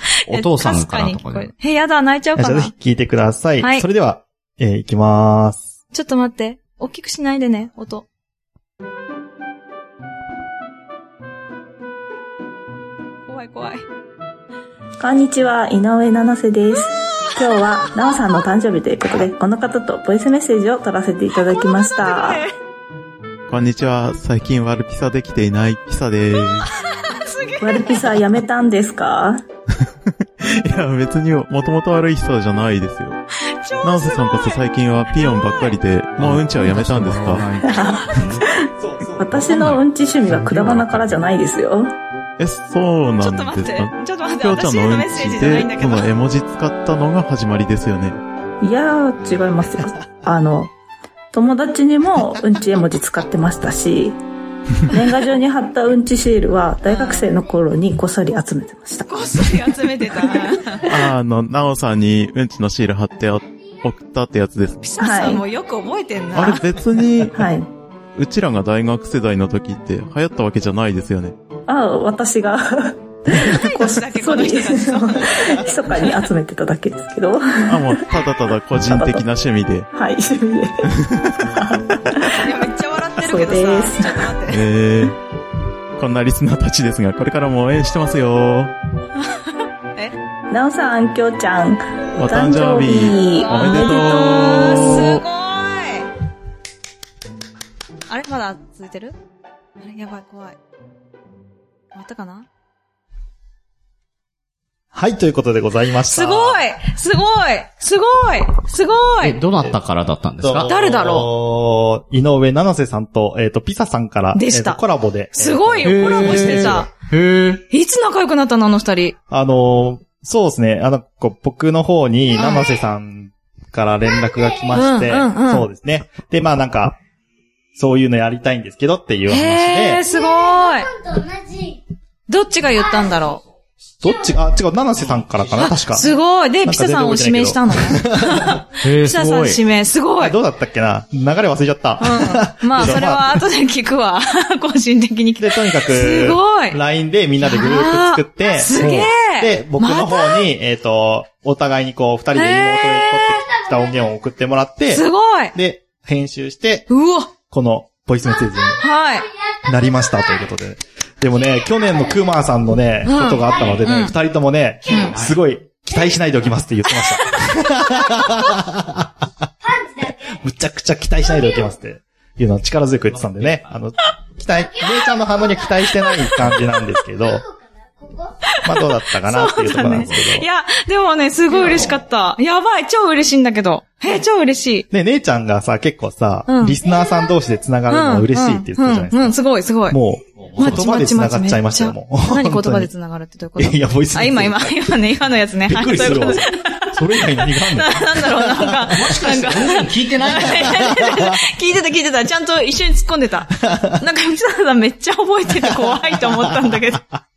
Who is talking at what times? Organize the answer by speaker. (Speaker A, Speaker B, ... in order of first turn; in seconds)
Speaker A: 0.3-1.5, 36.2-38.5, 109.2-110.7, 115.8-117.6, 138.8-139.6, 173.1-173.7, 181.5-181.9, 190.4-190.8, 198.9-201.0
Speaker B: 0.3-2.7, 3.6-3.8, 5.9-8.0, 13.3-13.8, 21.6-22.5, 26.7-28.1, 33.4-35.8, 43.2-46.1, 56.9-57.3, 59.1-60.9, 64.8-66.6, 73.4-76.2, 82.3-84.6, 89.2-90.1, 93.5-96.1, 98.1-99.1, 99.8-100.5, 101.9-102.5, 106.1-109.4, 110.7-111.3, 114.3-114.8, 115.3-116.9, 117.7-119.1, 122.4-122.7, 124.7-125.7, 129.3-130.9, 132.3-133.4, 135.6-140.3, 142.0-146.8, 147.4-150.5, 152.3-153.4, 154.9-155.5, 156.9-157.3, 158.8-159.3, 163.0-164.1, 164.9-165.1, 176.2-176.6, 178.6-184.9, 186.5-186.8, 187.9-190.0, 190.6-207.1
Speaker C: 2.4-5.6, 38.8-39.6, 104.9-106.6, 110.4-116.9, 119.3-127.0, 127.8-130.0, 134.0-136.1, 136.6-138.6, 140.2-143.4, 145.4-156.9, 157.5-158.8, 159.6-169.2, 170.3-177.4, 178.6-180.5, 184.9-189.4, 189.9-192.9, 193.6-195.0, 195.7-198.9, 200.5-201.4, 205.7-206.7
Speaker D: 15.0-22.4, 27.6-29.4, 37.6-41.9, 48.6-50.7, 51.3-54.2, 54.9-61.0, 65.0-65.4, 67.3-67.7, 71.7-78.2, 78.8-79.2, 79.9-82.5, 83.1-84.3, 90.5-95.1
Speaker E: 23.5-26.7, 30.4-33.2, 33.8-37.5, 42.4-48.2, 60.9-65.0, 66.3-67.5, 68.2-71.3, 77.7-79.9, 80.9-81.7, 84.5-85.2, 86.0-88.7, 92.2-95.2
Speaker F: 124.2-124.7, 130.0-131.8, 132.8-133.3, 153.4-153.9, 158.4-158.8, 159.5-160.4, 161.6-162.1, 163.4-163.8, 169.6-170.4, 171.3-171.7, 174.8-175.8, 177.2-178.4, 186.8-187.3